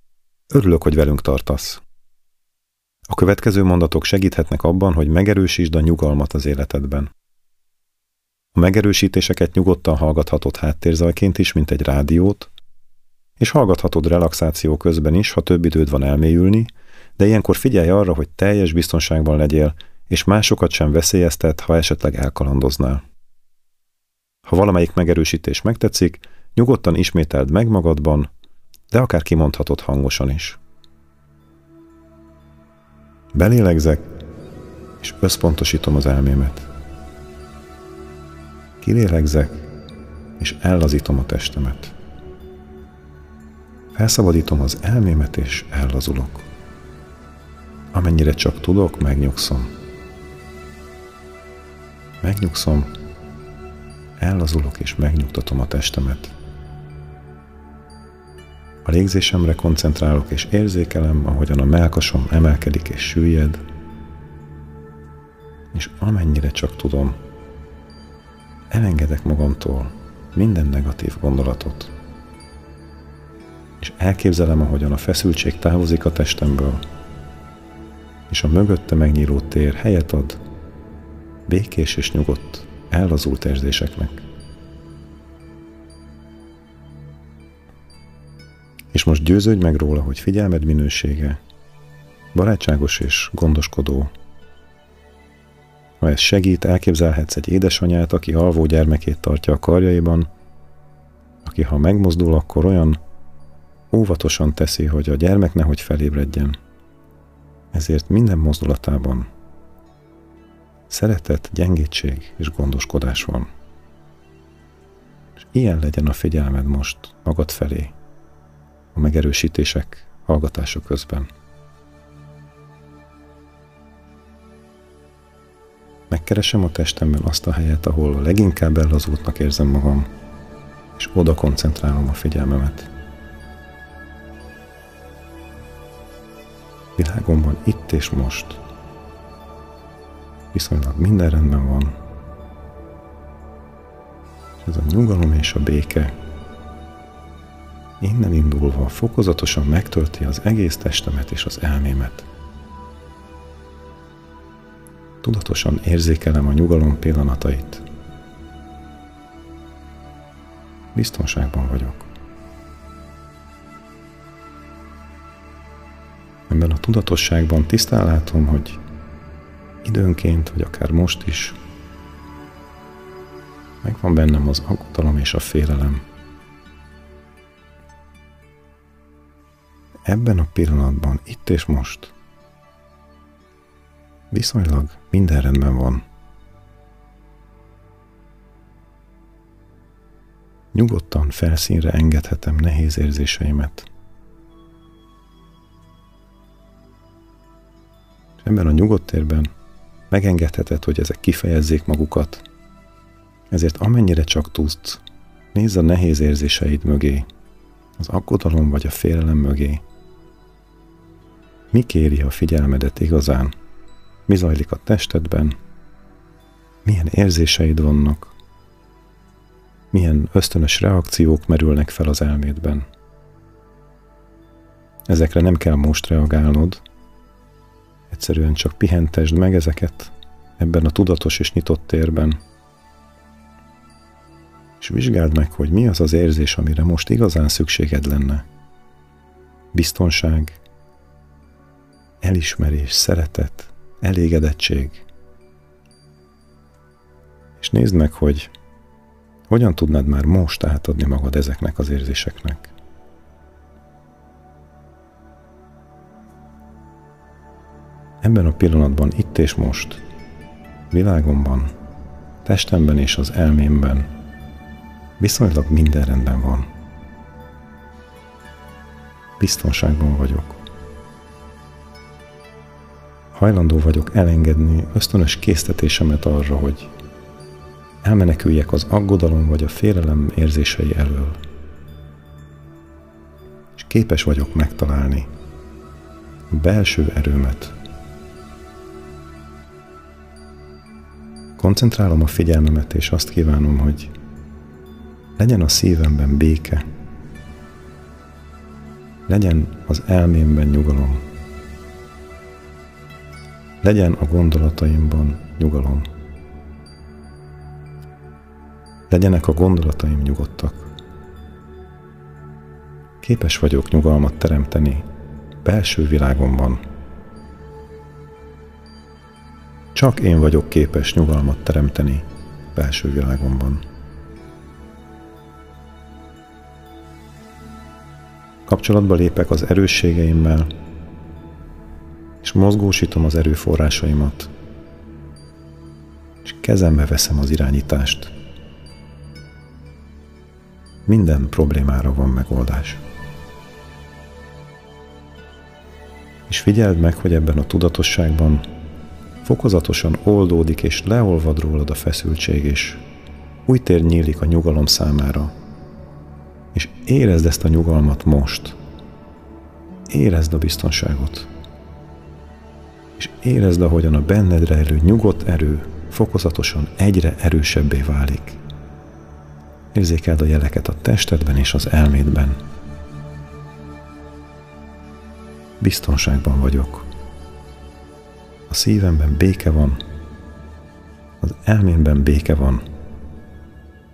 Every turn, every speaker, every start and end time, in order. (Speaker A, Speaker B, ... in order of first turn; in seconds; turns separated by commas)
Speaker A: 0.5-1.8, Speaker A: 3.1-7.1, Speaker A: 8.5-12.5, Speaker A: 13.4-23.0, Speaker A: 24.4-28.3, Speaker A: 28.9-30.6, Speaker A: 33.3-34.1, Speaker A: 35.0-36.7, Speaker A: 38.8-39.7, Speaker A: 40.4-41.9, Speaker A: 43.9-46.5, Speaker A: 47.9-49.7, Speaker A: 52.2-52.9, Speaker A: 54.2-56.3, Speaker A: 58.8-63.6, Speaker A: 65.7-67.2, Speaker A: 68.7-71.9, Speaker A: 73.8-76.8, Speaker A: 78.3-80.4, Speaker A: 81.5-84.2, Speaker A: 88.9-91.4, Speaker A: 92.3-94.1, Speaker A: 96.0-100.3, Speaker A: 101.4-103.0, Speaker A: 103.9-106.6, Speaker A: 107.7-109.3, Speaker A: 110.9-113.5, Speaker A: 115.4-117.9, Speaker A: 118.9-121.3, Speaker A: 126.1-130.1, Speaker A: 131.0-132.9, Speaker A: 136.9-138.6, Speaker A: 140.5-141.9, Speaker A: 144.6-146.1, Speaker A: 148.0-152.3, Speaker A: 155.2-157.8, Speaker A: 160.9-162.1, Speaker A: 166.5-168.8, Speaker A: 169.8-171.6, Speaker A: 173.8-176.1, Speaker A: 180.1-182.1, Speaker A: 184.3-186.0, Speaker A: 190.7-193.9, Speaker A: 198.4-199.5, Speaker A: 200.1-202.4, Speaker A: 203.5-205.0, Speaker A: 205.5-207.3, Speaker A: 208.0-209.8, Speaker A: 211.7-213.5, Speaker A: 214.3-215.6, Speaker A: 216.8-218.3, Speaker A: 219.9-222.8, Speaker A: 225.1-226.8, Speaker A: 228.1-232.4, Speaker A: 234.8-238.4, Speaker A: 239.7-240.6, Speaker A: 242.2-245.0, Speaker A: 247.6-248.5, Speaker A: 249.5-252.7, Speaker A: 258.2-260.0, Speaker A: 260.9-261.7, Speaker A: 262.4-264.1, Speaker A: 265.2-266.7, Speaker A: 269.4-270.6, Speaker A: 273.3-276.9, Speaker A: 278.0-281.4, Speaker A: 283.8-285.3, Speaker A: 286.5-287.7, Speaker A: 291.6-294.1, Speaker A: 295.4-296.8, Speaker A: 299.3-301.2, Speaker A: 303.8-306.1, Speaker A: 309.1-310.9, Speaker A: 313.2-315.1, Speaker A: 315.6-316.8, Speaker A: 319.9-323.8, Speaker A: 328.7-330.7, Speaker A: 332.4-334.5, Speaker A: 336.4-338.3, Speaker A: 341.1-343.0, Speaker A: 346.5-348.6, Speaker A: 349.4-353.0, Speaker A: 353.6-355.5, Speaker A: 356.7-358.8, Speaker A: 360.1-361.5, Speaker A: 363.2-368.6, Speaker A: 369.9-372.6, Speaker A: 375.8-377.1, Speaker A: 378.7-380.0, Speaker A: 381.4-382.8